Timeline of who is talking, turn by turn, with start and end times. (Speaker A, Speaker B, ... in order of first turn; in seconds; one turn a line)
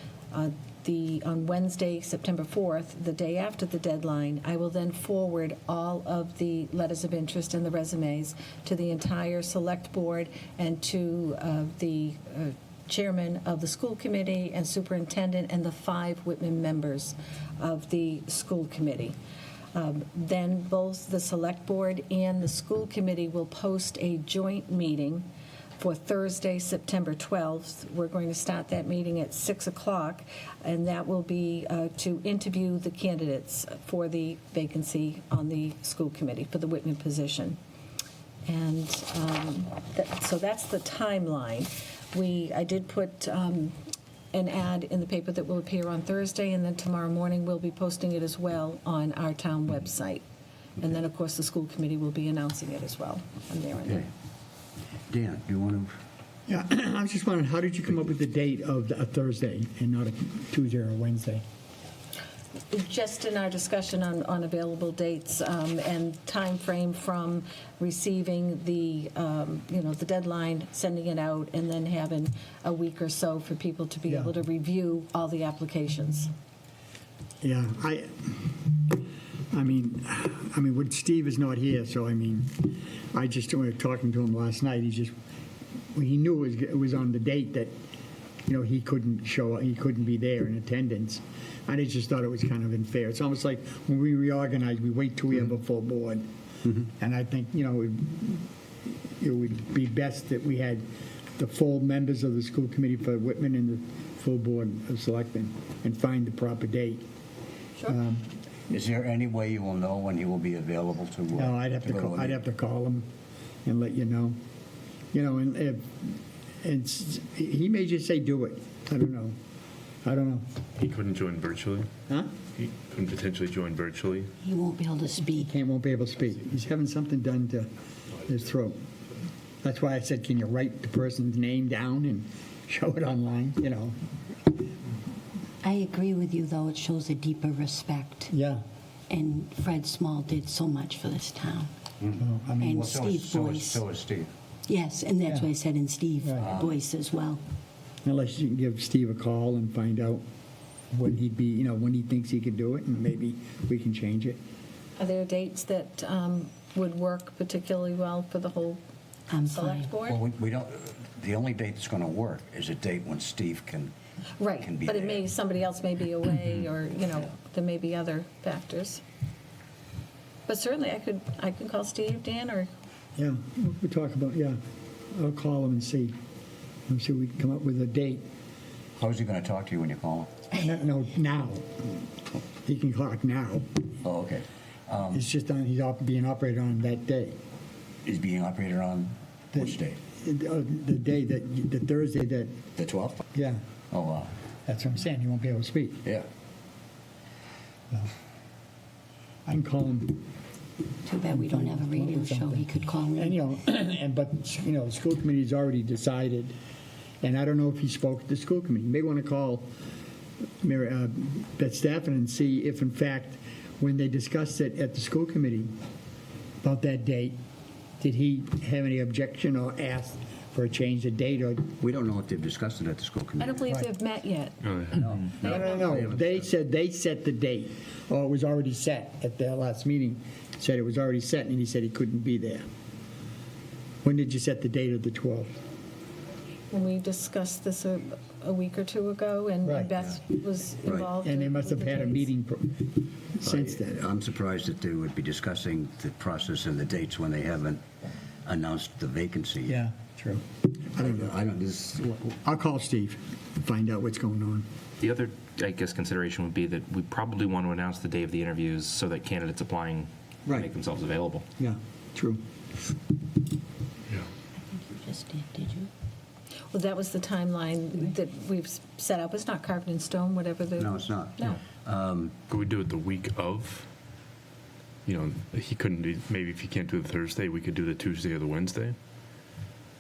Speaker A: 0.3-19.1
Speaker A: 19.7-25.2
Speaker A: 25.8-37.6
Speaker A: 38.5-43.7
Speaker A: 44.3-50.2
Speaker A: 50.8-54.1
Speaker B: 55.1-56.0
Speaker C: 56.5-61.4
Speaker A: 62.7-76.3
Speaker C: 74.1-74.3
Speaker C: 77.4-78.7
Speaker C: 79.5-85.1
Speaker C: 85.9-87.7
Speaker C: 88.5-96.2
Speaker C: 96.8-98.5
Speaker C: 99.2-100.8
Speaker C: 101.4-107.0
Speaker C: 107.8-108.3
Speaker B: 108.7-112.4
Speaker C: 111.3-113.1
Speaker C: 113.6-114.4
Speaker C: 115.1-119.3
Speaker C: 120.0-120.4
Speaker D: 120.8-121.9
Speaker D: 122.6-124.3
Speaker E: 124.4-125.5
Speaker C: 125.3-127.7
Speaker C: 128.2-128.8
Speaker C: 129.6-134.0
Speaker E: 135.6-138.3
Speaker C: 138.3-138.6
Speaker E: 139.1-141.7
Speaker B: 142.0-144.3
Speaker C: 142.2-142.9
Speaker E: 142.6-143.8
Speaker E: 144.7-147.4
Speaker C: 146.2-146.5
Speaker B: 146.4-146.7
Speaker C: 148.0-150.2
Speaker C: 150.9-154.4
Speaker A: 155.0-158.8
Speaker E: 159.3-159.9
Speaker A: 159.4-160.2
Speaker B: 160.0-163.9
Speaker A: 164.4-169.0
Speaker B: 164.6-165.2
Speaker A: 170.5-172.7
Speaker C: 173.2-174.6
Speaker C: 175.1-176.1
Speaker C: 176.9-178.2
Speaker B: 179.0-180.3
Speaker C: 180.5-181.8
Speaker C: 182.6-183.8
Speaker B: 184.0-185.2
Speaker C: 185.1-187.3
Speaker B: 188.0-190.0
Speaker C: 189.5-192.6
Speaker B: 192.8-193.2
Speaker C: 193.3-193.6
Speaker B: 193.9-194.3
Speaker C: 194.7-196.0
Speaker C: 199.4-200.2
Speaker E: 201.0-203.4
Speaker C: 201.3-206.5
Speaker C: 207.2-209.7
Speaker C: 210.6-215.7
Speaker C: 216.6-217.3
Speaker C: 218.0-221.8
Speaker B: 221.8-223.7
Speaker A: 223.4-224.6
Speaker D: 224.6-225.1
Speaker B: 224.9-226.4
Speaker C: 225.4-232.6
Speaker A: 225.5-225.8
Speaker C: 234.0-235.5
Speaker A: 236.7-242.3
Speaker C: 239.6-239.9
Speaker C: 241.2-244.0
Speaker B: 243.4-247.8
Speaker B: 248.4-249.8
Speaker C: 249.7-251.3
Speaker B: 251.0-252.2
Speaker C: 252.2-254.7
Speaker F: 255.0-261.4
Speaker C: 260.4-260.7
Speaker C: 261.6-262.4
Speaker E: 264.6-265.9
Speaker A: 266.7-271.6
Speaker B: 270.8-272.3
Speaker D: 272.5-273.9
Speaker D: 275.1-278.9